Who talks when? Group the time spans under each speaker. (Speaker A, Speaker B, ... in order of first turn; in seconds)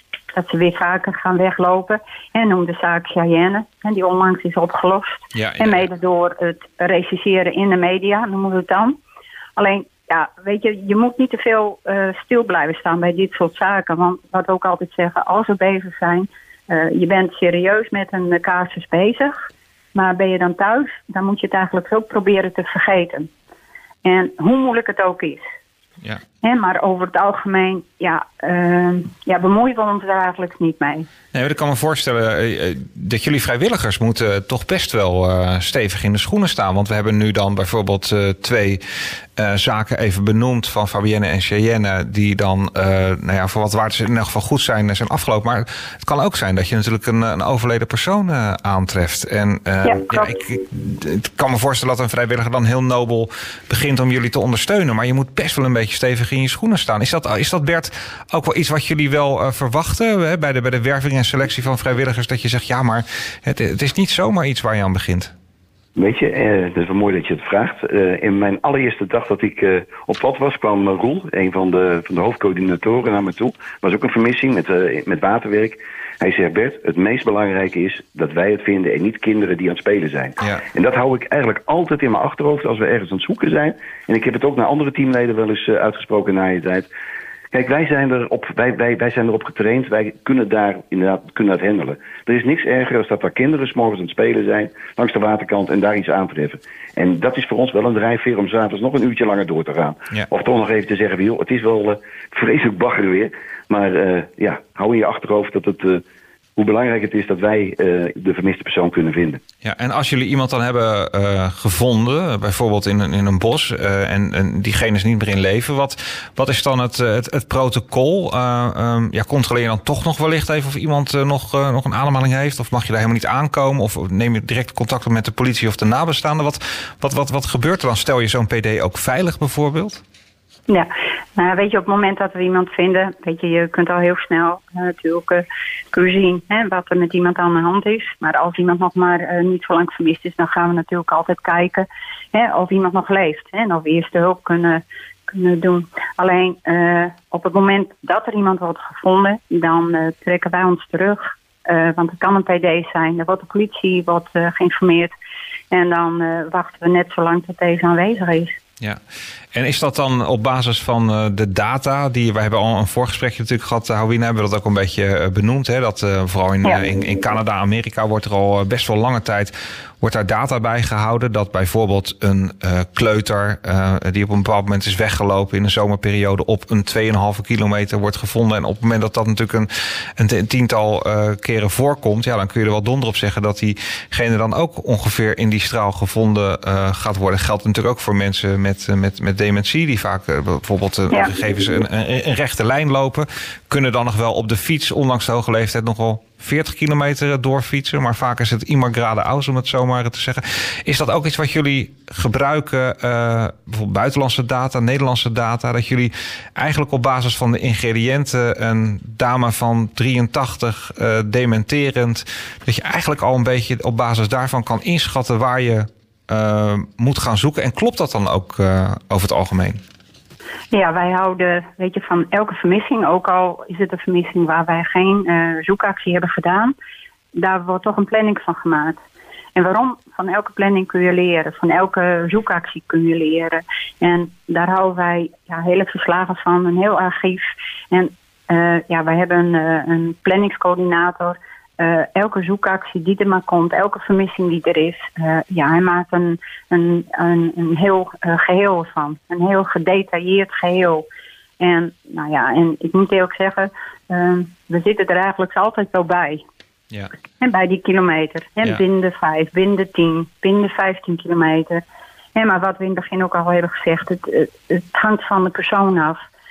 Speaker A: 0.3-9.0, 9.6-23.3, 24.0-25.5, 26.4-31.1, 49.8-50.4, 130.7-155.1, 155.7-158.6, 220.7-226.7, 227.3-229.0, 229.6-251.1, 251.6-256.4, 257.4-261.8, 262.4-266.2
Speaker B: 5.3-5.9, 31.3-65.3, 109.6-130.0, 159.5-219.8
Speaker C: 66.0-86.9, 87.5-106.0, 106.6-109.4